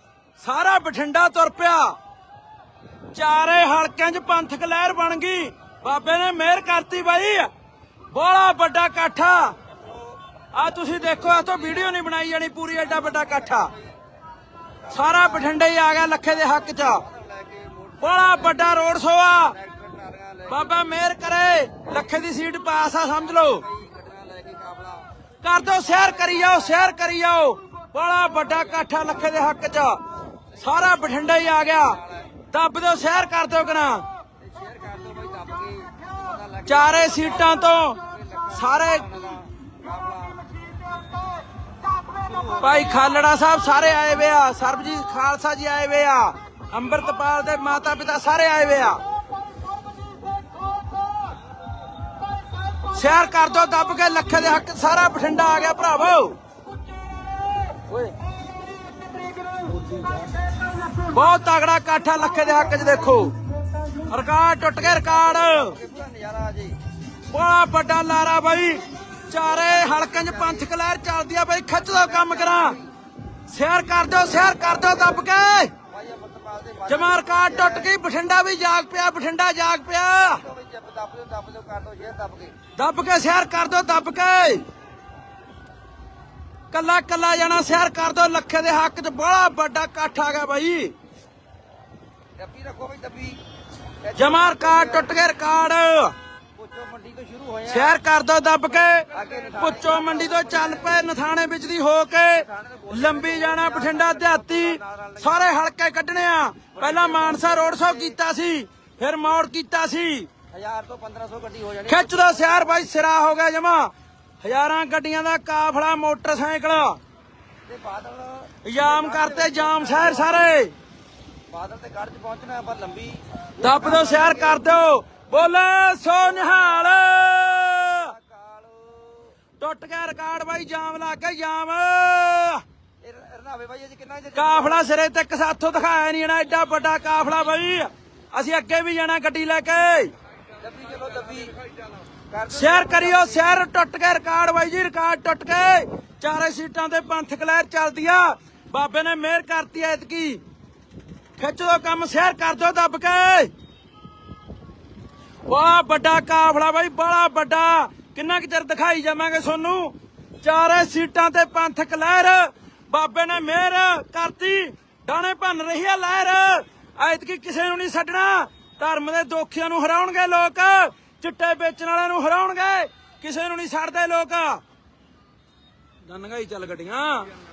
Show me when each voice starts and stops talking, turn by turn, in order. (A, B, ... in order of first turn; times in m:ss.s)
0:00.4-0:02.0 A
0:03.1-0:07.5 A
0:08.1-0:09.5 A
0:09.8-0:10.2 B
0:10.5-0:13.7 A
0:11.1-0:11.9 B
0:12.8-0:13.9 B
0:14.9-0:15.5 B
0:14.9-0:17.0 A
0:16.9-0:18.8 B
0:18.0-0:19.5 A
0:19.5-0:20.7 B
0:20.5-0:23.6 A
0:23.2-0:25.1 B
0:25.4-0:30.0 A
0:25.9-0:26.8 B
0:30.6-0:32.0 A
0:30.6-0:32.3 B
0:32.5-0:34.1 A
0:34.4-0:40.4 B
0:36.7-0:38.0 A
0:38.5-0:39.1 A
0:42.1-0:42.9 B
0:42.6-0:49.0 A
0:52.9-0:56.4 A
1:01.0-1:03.3 A
1:04.0-1:05.8 A
1:04.8-1:06.8 B
1:07.3-1:12.8 A
1:09.6-1:10.7 B
1:11.8-1:12.9 B
1:13.5-1:15.7 A
1:15.9-1:17.9 B
1:16.9-1:20.4 A
1:20.2-1:22.6 B
1:22.8-1:24.6 A
1:26.7-1:31.0 A
1:32.4-1:33.4 B
1:34.0-1:35.2 B
1:34.2-1:36.2 A
1:36.6-1:38.0 B
1:37.7-1:50.3 A
1:39.1-1:41.0 B
1:42.3-1:45.4 B
1:46.8-1:48.2 B
1:50.5-1:52.8 B
1:51.9-1:53.9 A
1:54.4-1:57.0 A
1:57.7-2:00.5 B
1:58.6-2:00.7 A
2:01.5-2:04.7 B
2:03.6-2:08.1 A
2:06.4-2:09.3 B
2:09.6-2:12.6 A
2:13.0-2:14.9 B
2:14.3-2:20.1 A
2:20.6-2:21.6 B
2:22.3-2:23.6 B
2:22.5-2:30.4 A
2:31.4-2:33.5 A
2:35.5-2:54.6 A
2:56.1-2:57.3 A